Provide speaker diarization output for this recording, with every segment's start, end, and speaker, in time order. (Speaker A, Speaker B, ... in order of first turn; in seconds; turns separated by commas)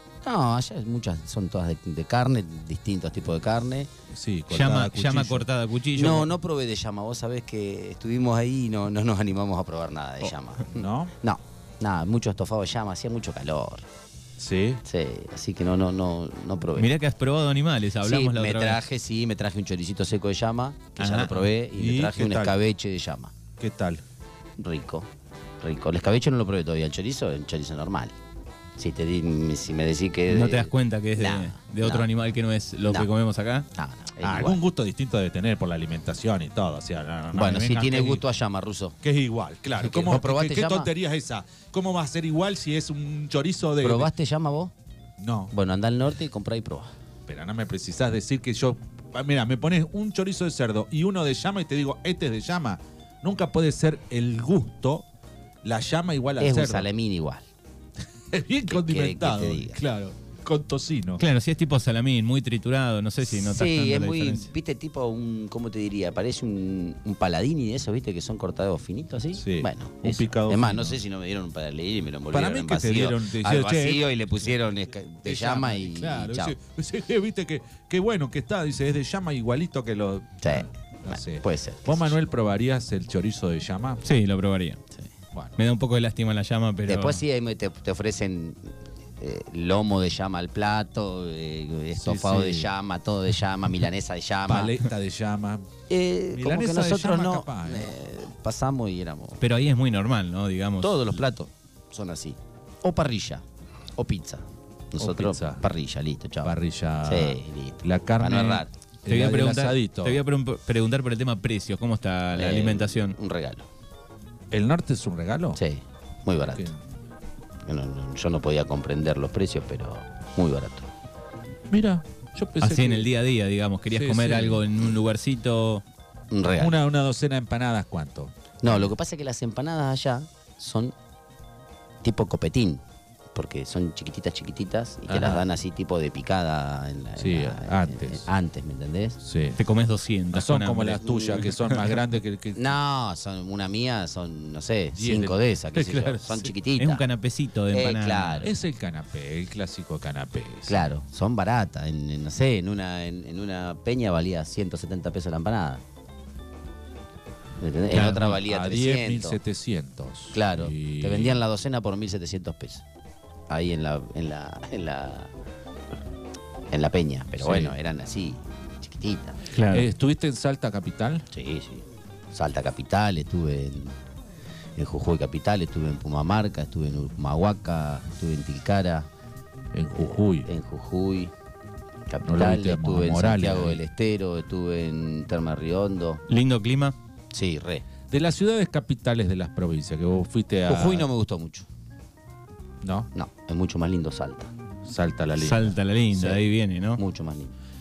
Speaker A: 0.2-3.9, Speaker B: 4.1-5.5, Speaker C: 4.5-6.3, Speaker A: 6.0-13.9, Speaker B: 10.7-11.1, Speaker B: 14.4-14.8, Speaker A: 14.8-16.9, Speaker C: 16.8-18.8, Speaker A: 18.0-23.3, Speaker C: 21.0-21.4, Speaker B: 21.3-22.6, Speaker B: 23.6-24.0, Speaker A: 24.6-25.1, Speaker A: 25.6-28.1, Speaker A: 28.8-32.1, Speaker C: 30.3-33.6, Speaker A: 33.8-34.6, Speaker B: 34.2-38.2, Speaker A: 37.3-39.0, Speaker B: 39.0-44.1, Speaker A: 39.8-40.9, Speaker A: 43.8-44.7, Speaker B: 45.2-45.5, Speaker A: 45.5-46.9, Speaker B: 47.3-55.1, Speaker B: 55.6-56.9, Speaker A: 56.4-57.5, Speaker B: 58.3-61.2, Speaker A: 58.7-59.8, Speaker C: 61.2-64.5, Speaker A: 63.3-76.6, Speaker B: 69.3-71.0, Speaker B: 72.3-74.1, Speaker B: 75.2-84.0, Speaker A: 80.4-82.2, Speaker C: 84.0-84.8, Speaker B: 85.3-85.6, Speaker C: 85.6-87.2, Speaker A: 86.9-94.8, Speaker B: 92.0-92.7, Speaker B: 94.5-95.7, Speaker A: 95.9-99.4, Speaker B: 96.3-98.0, Speaker C: 99.4-101.1, Speaker A: 100.8-103.4, Speaker A: 104.0-108.7, Speaker B: 105.0-105.6, Speaker B: 106.4-110.2, Speaker C: 109.1-113.2, Speaker A: 112.3-113.7, Speaker B: 114.5-115.6, Speaker A: 115.6-116.7, Speaker A: 117.7-120.9, Speaker B: 121.7-123.1, Speaker C: 122.6-125.8, Speaker B: 123.9-124.7, Speaker A: 126.3-126.8, Speaker B: 126.6-128.9, Speaker A: 128.6-130.9, Speaker A: 132.0-132.8, Speaker A: 133.3-139.2, Speaker B: 135.1-135.4, Speaker B: 137.2-138.3, Speaker B: 139.2-139.6, Speaker C: 139.6-141.0, Speaker B: 140.3-142.7, Speaker A: 140.9-141.5, Speaker A: 142.6-147.0, Speaker B: 144.9-146.5, Speaker C: 146.8-148.5, Speaker A: 147.7-148.5, Speaker B: 148.4-150.9, Speaker A: 150.7-155.8, Speaker A: 157.6-159.4, Speaker C: 157.9-158.4, Speaker B: 158.4-161.4, Speaker A: 160.3-162.8, Speaker A: 163.5-165.3, Speaker A: 166.7-169.4, Speaker B: 167.4-167.8, Speaker C: 169.5-169.9, Speaker B: 169.7-171.3, Speaker A: 171.3-173.9, Speaker A: 174.8-179.1, Speaker B: 179.7-180.5, Speaker A: 180.4-181.3, Speaker A: 182.1-186.2, Speaker B: 182.2-183.8, Speaker C: 186.3-186.9, Speaker A: 187.3-187.8, Speaker B: 188.1-191.1, Speaker A: 190.7-191.7, Speaker B: 192.8-193.1, Speaker A: 193.2-194.5, Speaker B: 194.8-195.8, Speaker C: 195.4-197.0, Speaker A: 196.1-196.4, Speaker A: 197.0-197.5